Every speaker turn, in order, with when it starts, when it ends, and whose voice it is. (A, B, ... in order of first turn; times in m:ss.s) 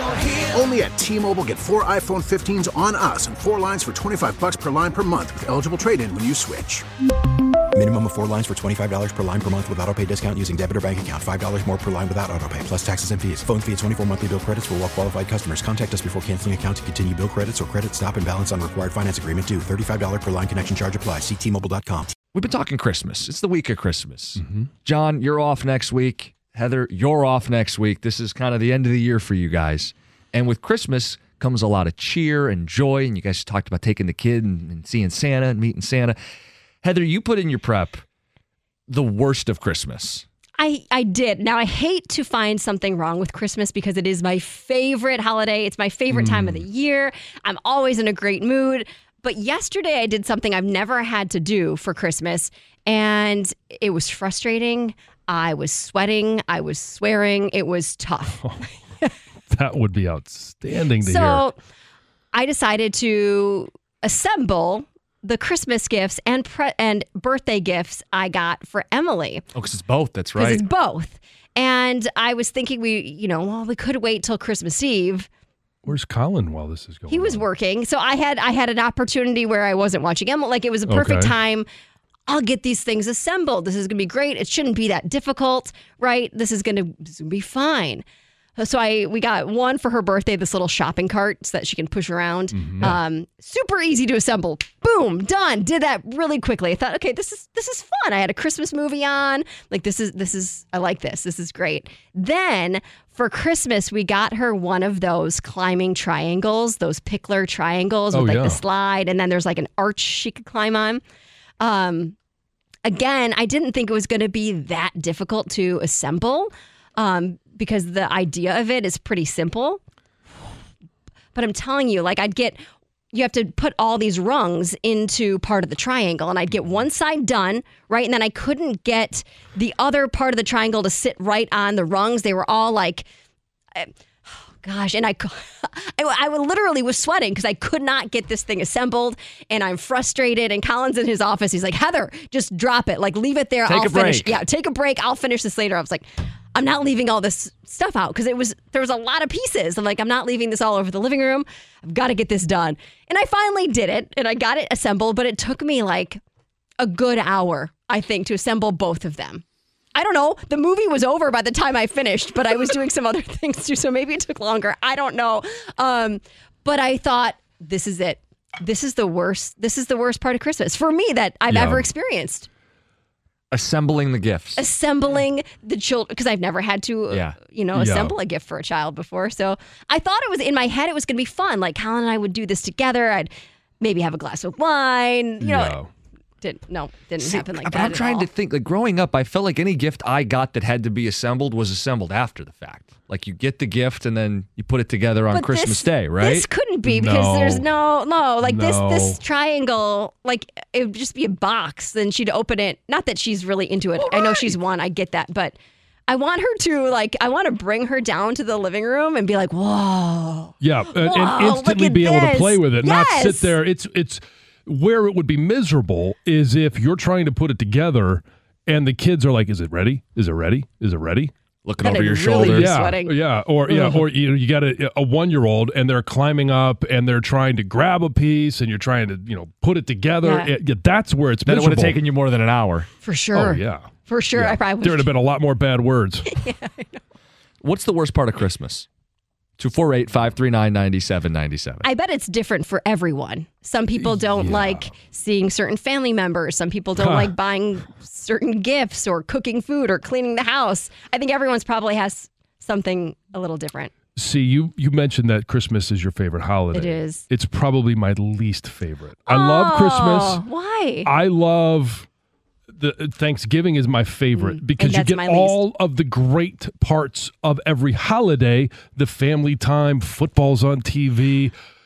0:00.5-0:06.8 A
0:07.7-0:22.1 B
0:22.3-0:36.2 C
0:36.8-0:38.0 C
0:38.9-0:40.2 C
0:40.6-0:58.4 D
0:46.1-0:46.6 E
0:59.5-1:01.4 E
1:01.0-1:01.6 D
1:02.3-1:09.4 D
1:09.5-1:10.6 C
1:10.4-1:15.3 D
1:15.8-1:17.4 E
1:17.1-1:21.6 D
1:20.9-1:21.3 E
1:22.3-1:28.0 D
1:28.6-1:51.0 D
1:32.6-1:33.0 E
1:48.1-1:48.6 E
1:51.6-1:52.1 D
1:52.8-1:59.8 D
2:01.3-2:02.6 D
2:03.1-2:13.1 D
2:13.7-2:36.2 D
2:23.6-2:24.3 C
2:36.8-2:39.4 D
2:39.9-2:52.5 D
2:51.5-2:51.8 E
2:53.5-2:54.6 C
2:54.6-3:05.8 D
2:57.1-2:57.4 C
2:57.7-2:58.1 E
3:05.4-3:05.9 E
3:06.4-3:08.3 D
3:07.2-3:16.5 C
3:15.3-3:33.6 D
3:16.8-3:17.6 E
3:18.4-3:19.2 E
3:24.0-3:24.5 C
3:30.6-3:41.3 E
3:41.6-3:42.7 C
3:41.8-3:44.0 D
3:42.4-3:52.0 E
3:50.2-3:50.5 D
3:51.4-3:52.9 C
3:53.0-3:55.1 D
3:53.3-3:56.3 E
3:56.3-3:57.0 D
3:57.6-3:58.9 C
3:59.6-4:01.8 C
4:01.8-4:13.9 D
4:04.1-4:04.8 E
4:07.0-4:07.3 E
4:14.2-4:20.4 E
4:16.7-4:17.2 D
4:19.3-4:21.1 D
4:21.0-4:22.1 E
4:22.8-4:31.5 E
4:24.3-4:25.6 D